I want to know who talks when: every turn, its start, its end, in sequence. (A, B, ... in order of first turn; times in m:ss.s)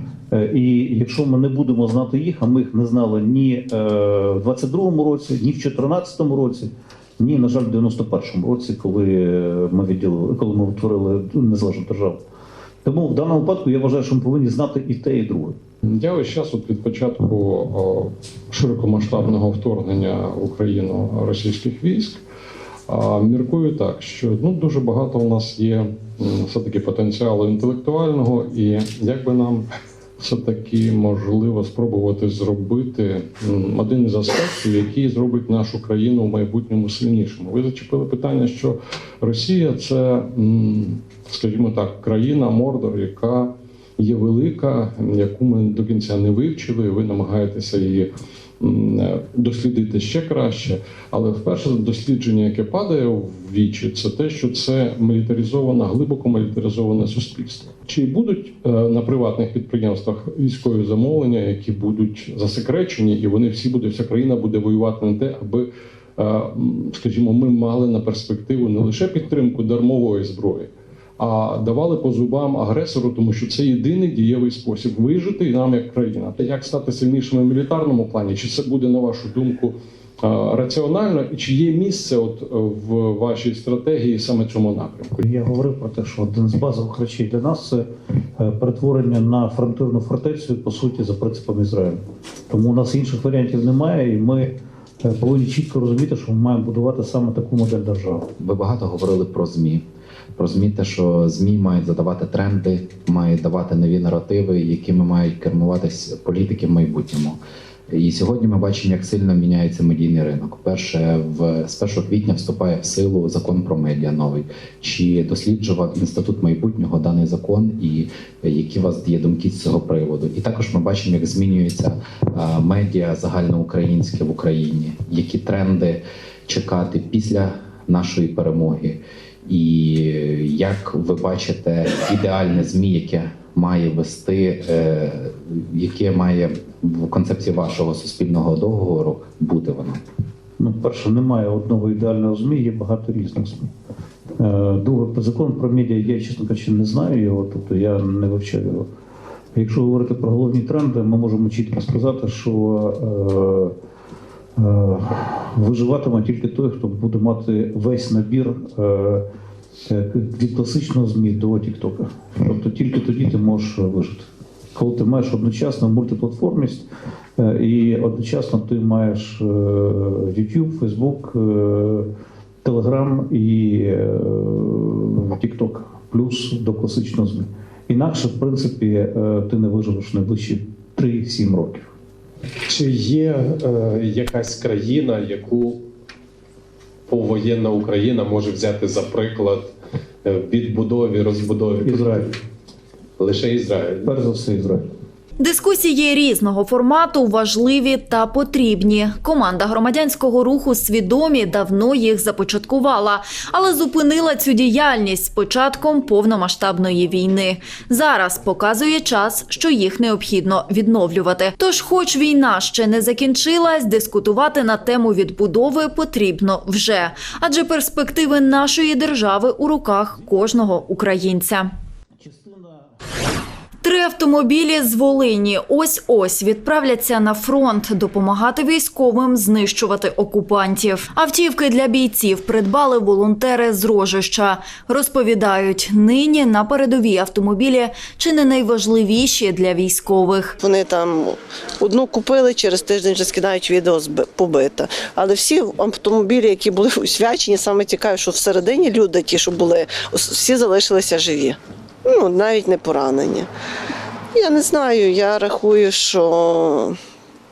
0:00.3-0:12.2 A
0:12.8-0:15.6 A
0:15.8-0:22.2 B
0:22.9-0:29.7 B
0:30.2-1:25.2 B
1:25.2-1:38.3 A
1:38.4-1:39.8 C
1:40.4-2:20.0 C
2:20.6-2:23.7 A
2:24.4-2:28.9 A
2:29.6-2:33.8 A
2:34.6-2:39.3 A
2:39.9-2:52.1 A
2:52.6-3:01.9 A
3:02.7-3:05.9 D
3:07.1-3:09.7 D
3:10.2-3:12.3 D
3:11.8-3:12.3 A
3:13.2-3:14.1 D
3:14.0-3:14.9 A
3:15.4-3:41.7 E
3:42.2-3:42.9 A
3:43.8-4:00.6 E
4:00.6-4:13.5 F
4:14.3-4:17.0 F